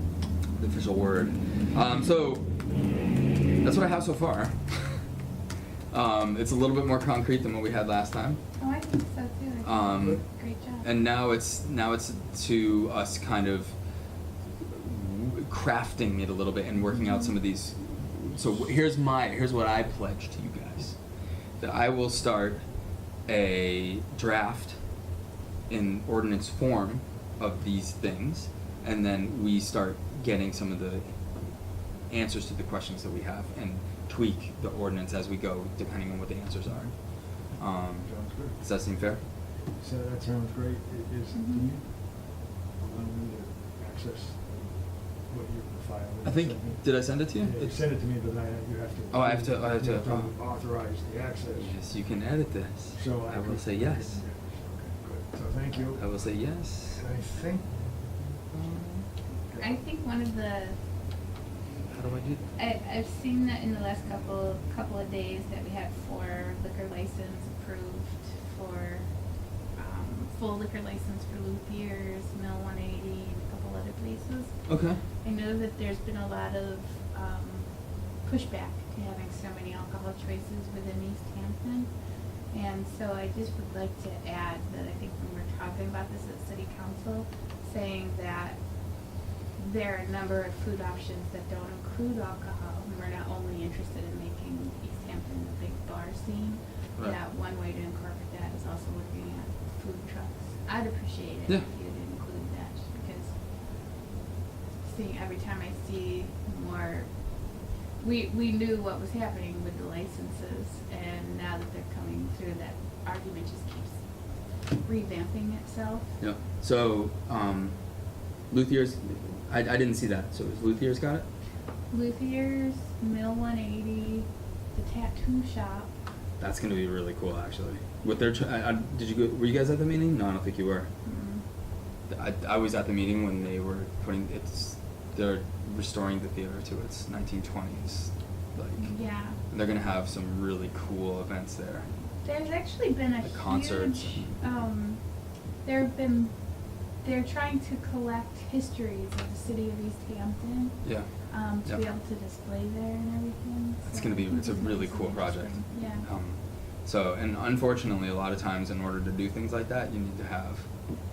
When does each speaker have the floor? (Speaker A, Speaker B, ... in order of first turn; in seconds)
Speaker A: 0.6-2.5, 3.6-5.0, 5.9-8.4, 9.6-10.2, 10.8-13.7, 14.6-21.0, 21.6-22.6, 23.2-24.8, 25.7-39.2, 46.2-48.0, 49.1-50.5, 51.6-54.2, 56.0-57.0, 58.5-59.1, 61.9-62.5, 74.7-75.0, 116.2-117.8, 118.5-121.3, 126.4-130.9, 132.1-141.9, 143.2-144.4, 150.8-151.8, 153.8-160.7
Speaker B: 8.6-10.9, 16.9-17.3, 41.3-41.7, 59.5-60.8, 62.5-69.1, 69.7-81.9, 82.5-88.6, 89.6-103.3, 104.8-114.0, 114.7-116.1, 121.9-125.9, 131.0-131.4, 138.8-139.4, 142.2-145.0, 145.6-156.1
Speaker C: 38.0-38.5, 39.8-42.2, 42.8-44.8, 45.3-46.9, 47.4-51.6, 53.0-56.0, 57.0-57.7